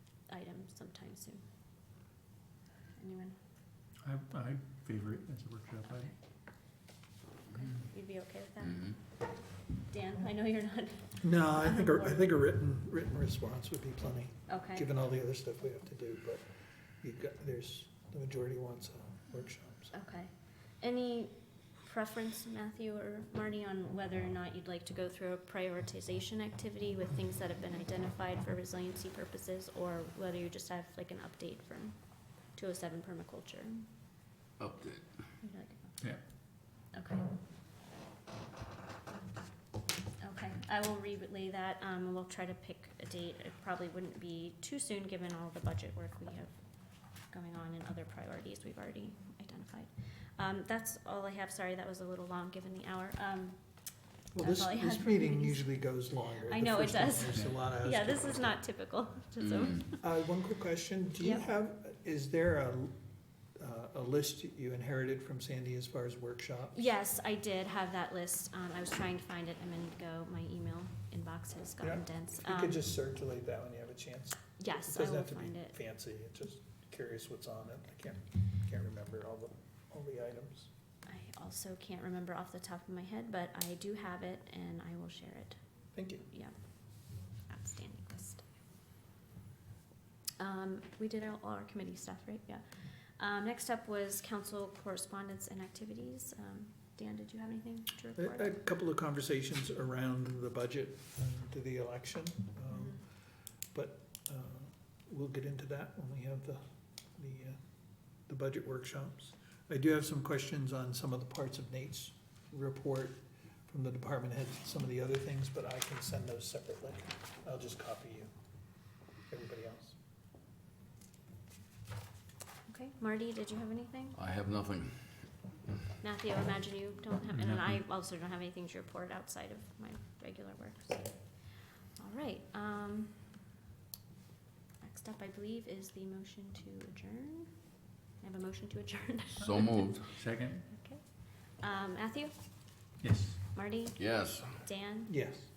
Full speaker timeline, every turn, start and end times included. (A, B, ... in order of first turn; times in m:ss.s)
0:00.3-0:01.4 A
0:03.0-0:03.4 A
0:04.0-0:06.1 B
0:07.5-0:09.0 A
0:09.8-0:12.2 A
0:11.2-0:16.4 C
0:14.5-0:14.9 A
0:17.0-0:19.9 C
0:19.9-0:32.0 A
0:32.5-0:33.9 A
0:34.6-0:35.1 D
0:35.4-0:36.0 A
0:36.9-0:37.2 A
0:40.2-0:46.6 A
0:47.3-0:53.6 A
0:54.3-0:58.4 C
0:54.4-0:55.8 A
0:56.3-1:00.0 A
0:59.4-0:59.8 D
1:00.0-1:02.9 C
1:01.2-1:01.5 A
1:03.6-1:06.9 C
1:06.7-1:12.8 A
1:11.8-1:20.7 C
1:14.6-1:15.7 A
1:21.1-1:25.6 A
1:25.9-1:26.3 C
1:26.3-1:28.4 A
1:30.4-1:38.6 A
1:38.2-1:43.1 C
1:42.7-1:43.0 A
1:43.7-1:46.6 C
1:47.2-1:47.6 C
1:48.3-1:58.3 C
1:59.3-2:00.0 C
2:02.7-2:04.2 A
2:04.2-2:05.3 D
2:06.0-2:11.2 A
2:12.0-2:13.2 A
2:14.8-2:17.5 A
2:18.2-2:19.9 A
2:19.4-2:20.1 D
2:20.1-2:20.6 B
2:20.7-2:22.3 A
2:23.0-2:23.5 B
2:23.5-2:25.2 A
2:24.0-2:24.6 D
2:25.1-2:25.5 C